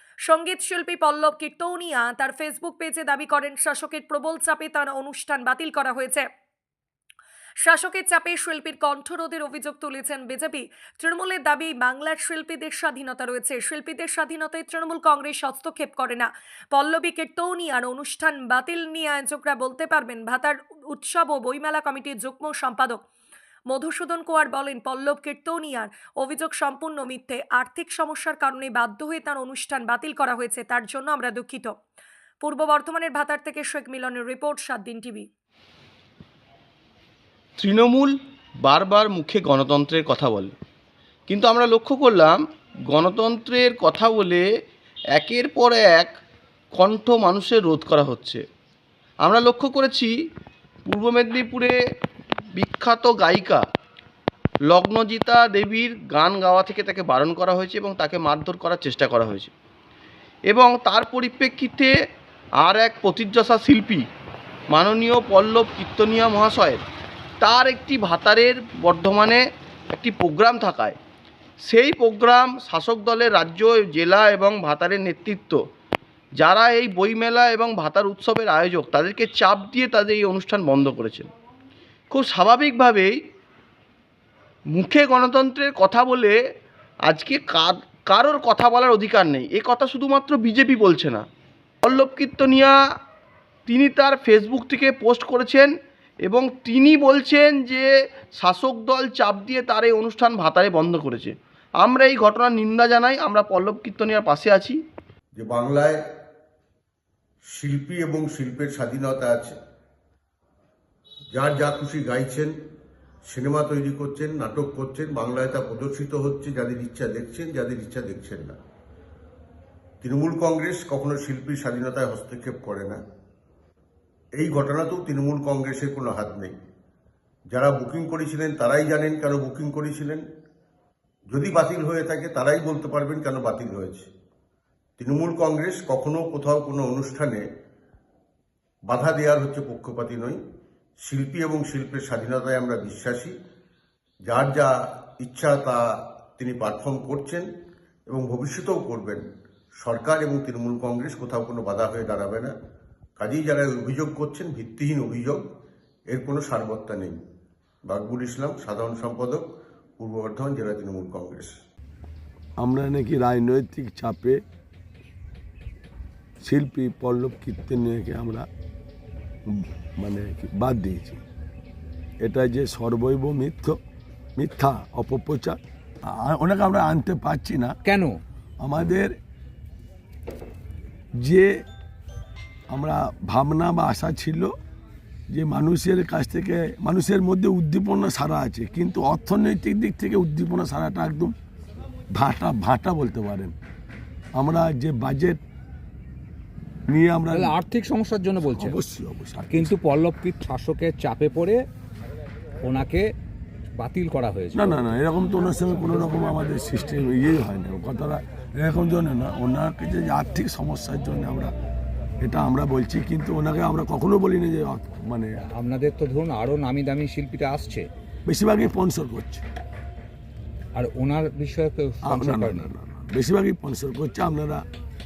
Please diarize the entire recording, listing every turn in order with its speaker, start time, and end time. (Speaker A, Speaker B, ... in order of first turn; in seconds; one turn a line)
Speaker A: 0.2-6.2
Speaker A: 7.6-23.0
Speaker A: 23.7-31.7
Speaker A: 32.4-35.3
Speaker B: 37.6-40.5
Speaker B: 41.3-44.4
Speaker B: 45.1-46.1
Speaker B: 46.7-48.4
Speaker B: 49.2-50.1
Speaker B: 50.9-51.8
Speaker B: 52.5-53.6
Speaker B: 54.7-59.5
Speaker B: 60.5-61.9
Speaker B: 62.6-64.0
Speaker B: 64.7-66.8
Speaker B: 67.4-71.0
Speaker B: 71.6-75.6
Speaker B: 76.4-81.3
Speaker B: 82.1-83.2
Speaker B: 84.7-86.4
Speaker B: 87.1-91.2
Speaker B: 91.8-92.8
Speaker B: 93.7-95.7
Speaker B: 96.2-104.8
Speaker C: 105.3-106.0
Speaker C: 107.5-109.5
Speaker C: 111.3-112.5
Speaker C: 113.3-118.5
Speaker C: 120.0-123.0
Speaker C: 124.3-126.5
Speaker C: 127.5-130.2
Speaker C: 131.3-134.1
Speaker C: 135.0-137.4
Speaker C: 138.9-140.4
Speaker C: 141.0-143.3
Speaker C: 144.2-145.8
Speaker C: 146.4-147.5
Speaker C: 148.1-149.2
Speaker C: 149.8-152.5
Speaker C: 153.2-155.4
Speaker C: 156.1-157.2
Speaker C: 157.8-159.4
Speaker C: 160.0-161.6
Speaker D: 162.6-164.4
Speaker D: 166.4-168.5
Speaker D: 169.5-171.2
Speaker D: 172.2-173.8
Speaker D: 174.4-177.8
Speaker E: 177.8-178.2
Speaker D: 178.6-179.1
Speaker D: 181.2-181.5
Speaker D: 182.7-184.5
Speaker D: 185.3-191.3
Speaker D: 192.1-193.5
Speaker D: 194.3-195.4
Speaker D: 196.9-197.5
Speaker E: 197.3-198.8
Speaker D: 198.5-199.7
Speaker E: 199.5-201.6
Speaker E: 202.6-203.1
Speaker E: 203.8-204.8
Speaker D: 204.5-211.5
Speaker D: 212.2-215.3
Speaker E: 215.5-217.9
Speaker D: 218.2-219.4
Speaker E: 220.7-222.7
Speaker D: 222.0-224.6